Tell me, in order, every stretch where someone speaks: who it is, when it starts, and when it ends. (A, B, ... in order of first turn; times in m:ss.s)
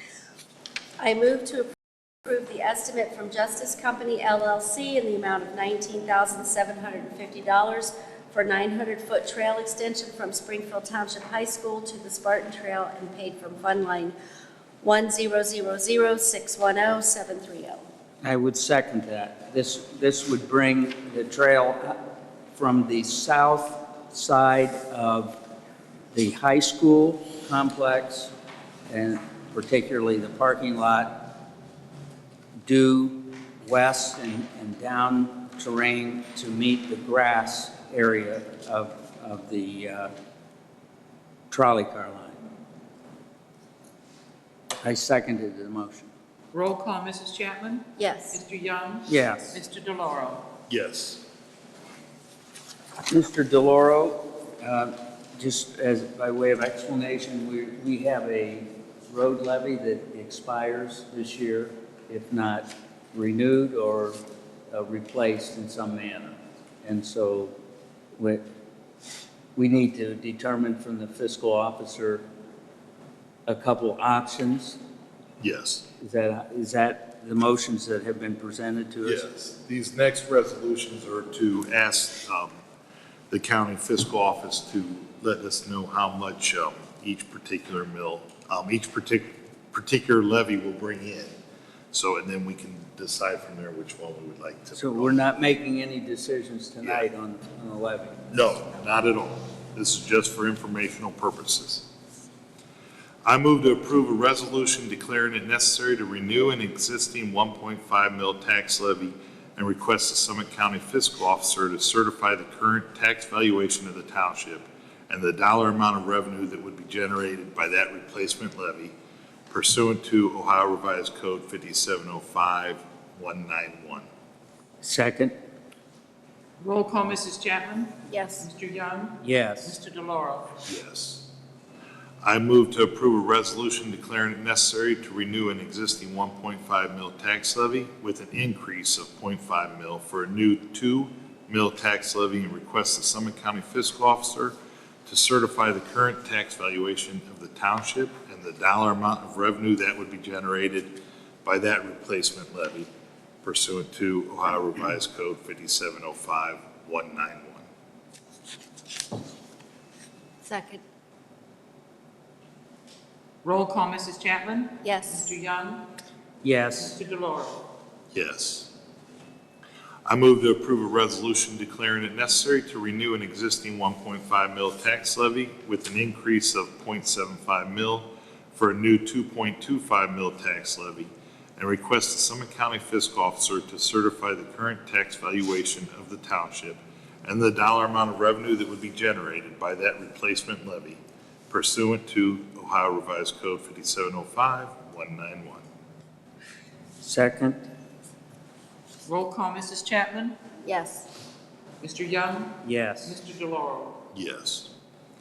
0:01.0-0:01.7 A
0:02.2-0:14.2 A
0:14.8-0:17.8 A
0:18.2-0:22.0 B
0:22.5-0:25.4 B
0:26.1-0:28.3 B
0:28.9-0:31.4 B
0:32.6-0:40.1 B
0:41.5-0:42.4 B
0:44.8-0:46.1 B
0:46.5-0:50.5 C
0:48.0-0:48.4 A
0:49.1-0:49.6 B
0:50.7-0:51.2 D
0:53.1-1:04.2 B
1:04.7-1:07.5 B
1:08.2-1:08.4 B
1:09.6-1:12.2 B
1:13.5-1:14.8 B
1:15.4-1:15.9 D
1:16.0-1:19.2 B
1:19.0-1:22.6 D
1:23.3-1:31.3 D
1:31.9-1:35.4 D
1:34.8-1:38.2 B
1:36.8-1:37.1 D
1:38.3-1:41.9 D
1:43.2-1:58.9 D
1:59.5-2:04.1 D
2:04.8-2:05.4 B
2:06.6-2:10.5 C
2:08.1-2:08.5 A
2:09.2-2:09.8 B
2:10.7-2:11.3 D
2:12.2-2:24.6 D
2:25.1-2:30.9 D
2:31.4-2:32.9 D
2:33.4-2:37.7 D
2:40.4-2:40.8 A
2:43.4-2:45.8 C
2:44.8-2:45.3 A
2:46.4-2:47.0 B
2:46.8-2:47.7 C
2:48.1-2:48.7 D
2:50.1-3:15.6 D
3:17.0-3:17.7 B
3:19.0-3:20.4 C
3:20.6-3:21.1 A
3:21.8-3:24.0 C
3:22.6-3:23.2 B
3:24.1-3:24.7 D